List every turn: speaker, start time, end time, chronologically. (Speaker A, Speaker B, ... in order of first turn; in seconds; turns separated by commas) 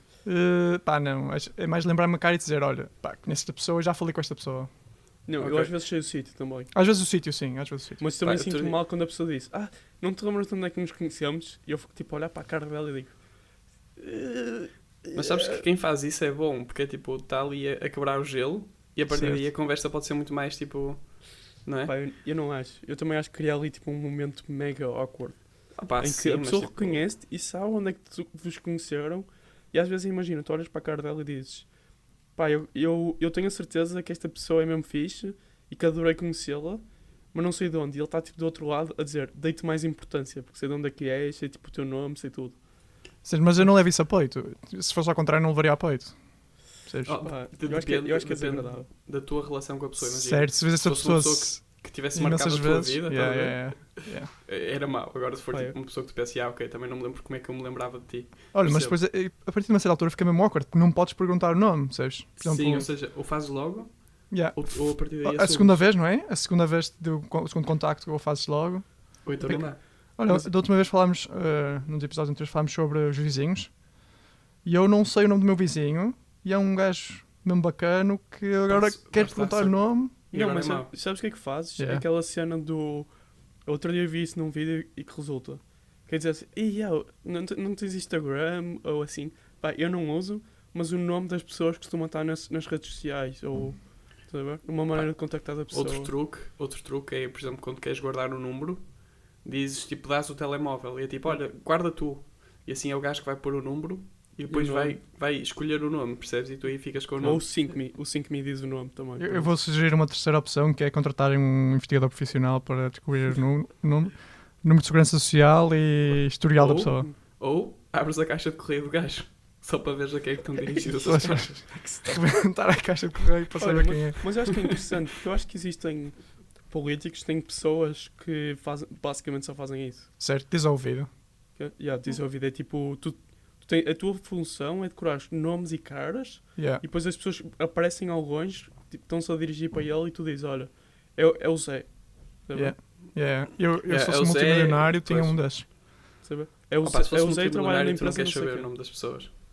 Speaker A: 0.2-5.8, Speaker B: 5.3-6.7, Speaker A: 6.7-8.0, Speaker B: 8.0-15.6, Speaker C: 8.2-8.8, Speaker C: 15.1-21.9, Speaker A: 19.1-19.5, Speaker B: 21.9-43.0, Speaker C: 25.8-27.0, Speaker A: 43.2-47.2, Speaker C: 47.0-59.0, Speaker B: 47.2-48.9, Speaker A: 50.0-54.3, Speaker A: 58.5-62.9, Speaker C: 62.4-66.0, Speaker A: 64.3-74.1, Speaker C: 69.2-70.5, Speaker A: 74.6-80.2, Speaker C: 78.7-80.9, Speaker B: 80.3-96.1, Speaker A: 81.8-82.0, Speaker C: 94.9-107.7, Speaker B: 104.5-105.0, Speaker B: 107.2-109.6, Speaker A: 109.2-117.1, Speaker C: 116.5-121.8, Speaker B: 120.7-122.2, Speaker A: 121.0-124.7, Speaker B: 123.6-130.1, Speaker A: 130.2-131.2, Speaker B: 131.6-142.8, Speaker A: 136.6-136.8, Speaker A: 142.5-145.7, Speaker C: 143.8-145.4, Speaker B: 146.2-148.7, Speaker C: 146.8-149.3